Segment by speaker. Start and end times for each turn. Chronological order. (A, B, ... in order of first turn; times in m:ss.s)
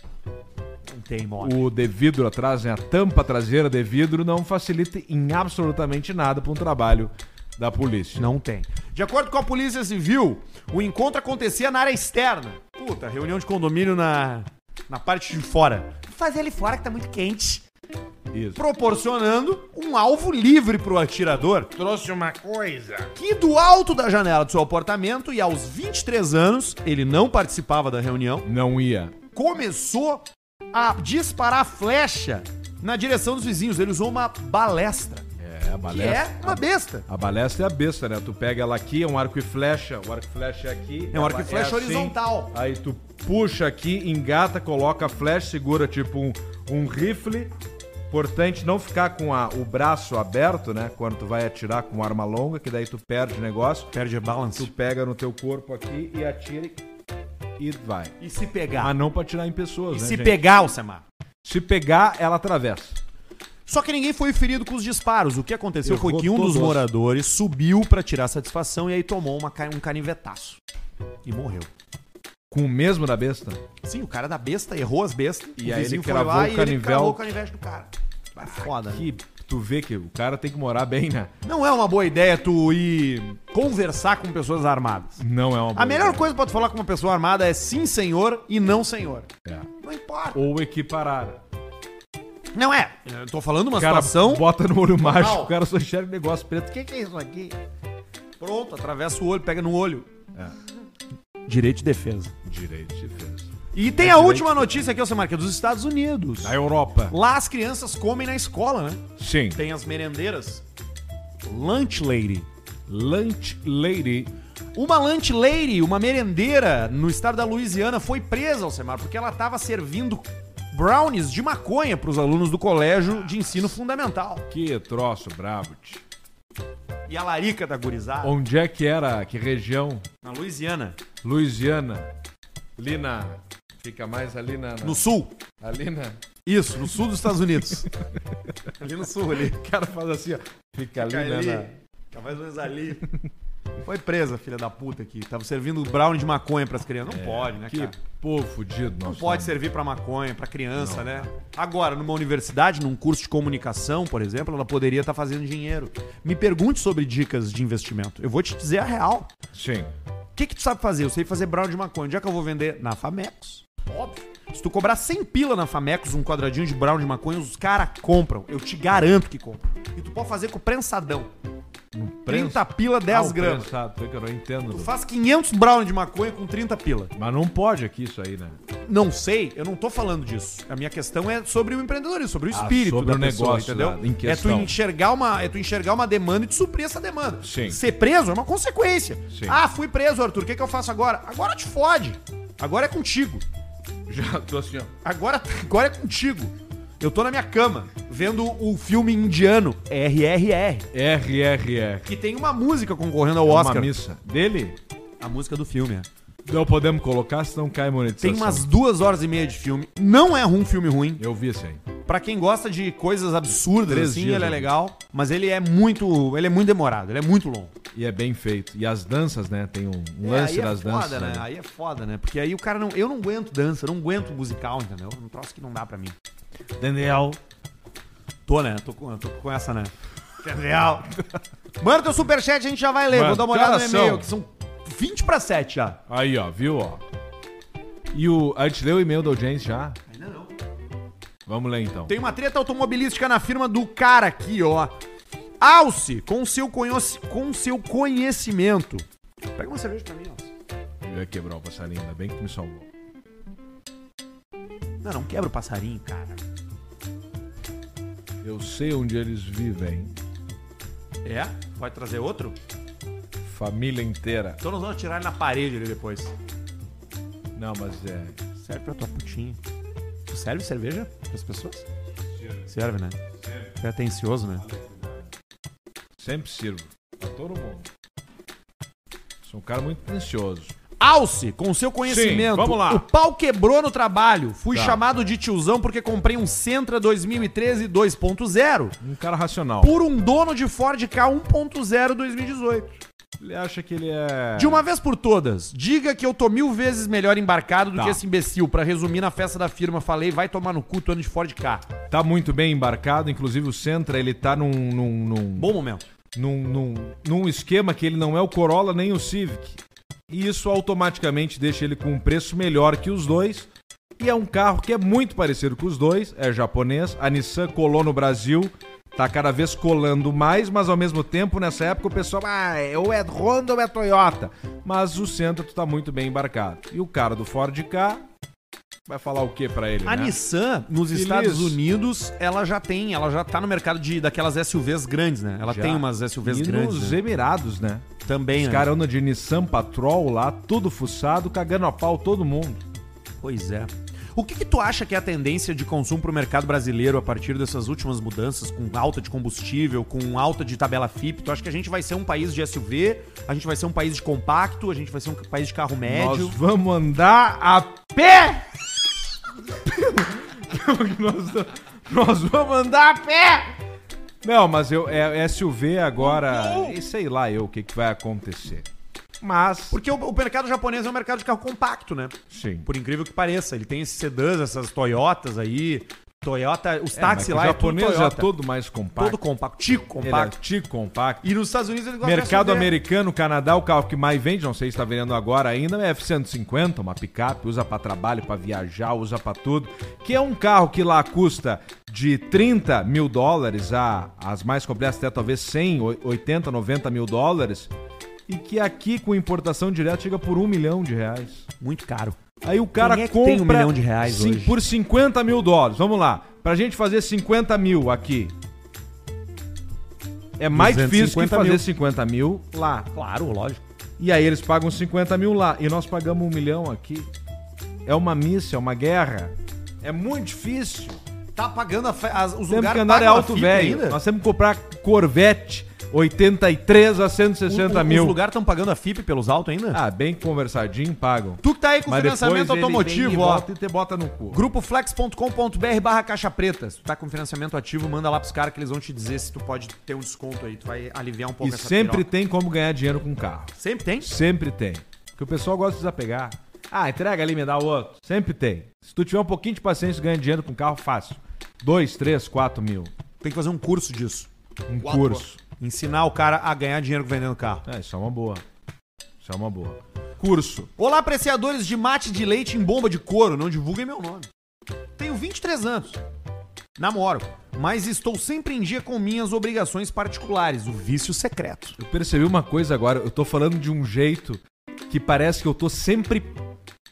0:00.9-0:01.6 A
0:01.4-0:08.3 B
0:08.2-0:17.6 A
0:18.3-0:18.6 B
0:18.6-0:21.7 A
0:21.8-0:22.9 B
0:23.2-0:28.5 A
0:28.4-0:29.2 B
0:29.3-0:35.3 A
0:35.4-0:47.5 B
0:35.9-0:37.1 A
0:41.1-0:42.5 A
0:48.1-0:53.9 B
0:53.9-0:54.7 A
0:54.5-0:56.8 B
0:57.6-0:58.2 B
0:58.2-0:58.9 A
0:58.8-1:00.4 B
0:59.9-1:01.0 A
1:01.4-1:03.0 B
1:03.7-1:10.6 A
1:05.8-1:06.9 B
1:11.2-1:11.7 A
1:12.5-1:13.6 B
1:13.8-1:19.0 A
1:15.6-1:17.3 B
1:18.4-1:21.3 B
1:21.4-1:25.2 A
1:25.2-1:26.3 B
1:25.8-1:29.3 A
1:29.8-1:30.4 A
1:30.3-1:31.4 B
1:32.6-1:34.5 A
1:33.8-1:37.6 B
1:35.0-1:35.5 A
1:38.4-1:40.1 A
1:41.5-1:42.3 A
1:42.4-1:44.9 B
1:43.7-1:46.6 A
1:46.4-1:47.2 B
1:47.1-1:50.6 A
1:49.2-1:49.6 B
1:51.4-1:52.5 A
1:52.9-1:54.3 B
1:54.8-2:04.4 A
2:04.5-2:06.0 B
2:07.1-2:08.4 A
2:08.2-2:10.1 B
2:10.2-2:11.0 A
2:11.2-2:12.1 B
2:12.8-2:15.0 B
2:14.8-2:15.3 A
2:15.6-2:16.2 B
2:16.4-2:17.9 A
2:18.8-2:19.6 A
2:19.4-2:21.7 B
2:20.9-2:23.1 A
2:23.8-2:28.0 A
2:27.1-2:29.6 B
2:29.0-2:39.3 A
2:30.8-2:31.3 B
2:39.5-2:39.9 B
2:40.4-2:51.3 A
2:51.9-2:54.9 B
2:52.3-2:53.7 A
2:54.7-2:57.1 A
2:57.2-2:58.6 B
2:58.9-3:13.4 A
3:02.5-3:04.8 B
3:07.4-3:07.8 B
3:09.3-3:09.6 B
3:14.1-3:14.9 B
3:15.0-3:20.9 A
3:20.9-3:22.1 B
3:22.1-3:23.9 A
3:23.5-3:24.8 B
3:25.2-3:26.1 A
3:26.4-3:28.7 B
3:28.2-3:31.2 A
3:31.2-3:31.8 B
3:32.0-3:37.7 A
3:33.9-3:34.7 B
3:38.0-3:41.4 B
3:40.2-3:46.2 A
3:46.8-3:47.4 B
3:48.5-3:51.1 A
3:51.8-3:56.0 A
3:53.1-3:54.3 B
3:56.1-3:57.0 B
3:58.1-4:00.0 B
4:00.1-4:00.5 A
4:01.5-4:02.2 B
4:02.1-4:04.9 A
4:05.6-4:09.0 A
4:09.6-4:10.5 A
4:11.0-4:12.9 B
4:15.0-4:16.4 A
4:18.4-4:20.2 B
4:21.2-4:22.6 A
4:23.4-4:24.6 B
4:24.6-4:26.3 A
4:27.6-4:28.4 B
4:28.6-4:29.6 A
4:30.3-4:31.9 A
4:32.7-4:33.2 A
4:33.8-4:34.7 A
4:34.7-4:35.0 B
4:36.2-4:37.9 B
4:39.4-4:40.7 B
4:41.0-4:49.0 A
4:42.0-4:43.0 B
4:44.7-4:45.0 B
4:49.0-4:49.9 B
4:49.8-4:53.0 A
4:53.4-4:54.9 B
4:54.6-5:01.8 A
4:58.0-4:58.2 B
5:02.1-5:05.7 B
5:05.6-5:06.0 A
5:06.4-5:28.2 B
5:29.1-5:30.3 B
5:30.1-5:37.2 A
5:31.1-5:31.8 B
5:35.6-5:42.8 B
5:38.2-5:38.9 A
5:43.4-5:56.6 A
5:56.1-5:58.8 B
5:59.7-6:03.8 B
6:04.4-6:08.9 B
6:09.4-6:10.0 B
6:09.9-6:18.5 A
6:12.5-6:12.9 B
6:17.2-6:19.4 B
6:19.2-6:20.6 A
6:20.2-6:21.4 B
6:21.4-6:22.9 A
6:22.2-6:37.9 B
6:38.5-6:41.7 B
6:41.8-6:42.4 A
6:42.6-6:48.6 B
6:43.0-6:44.8 A
6:50.6-6:53.1 B
6:50.7-6:51.8 A
6:53.1-6:53.8 A
6:54.2-6:57.3 B
6:58.0-7:01.2 B
7:01.6-7:04.2 A
7:02.7-7:08.4 B
7:07.7-7:10.0 A
7:09.9-7:14.6 B
7:11.6-7:13.7 A
7:14.5-7:22.3 A
7:21.6-7:33.1 B
7:23.8-7:24.3 A
7:33.4-7:34.5 A
7:34.9-7:35.6 B
7:35.0-7:37.8 A
7:37.8-7:38.6 B
7:39.4-7:40.9 B
7:41.0-7:44.5 A
7:45.2-7:46.2 A
7:47.0-7:52.0 A
7:52.0-7:56.6 B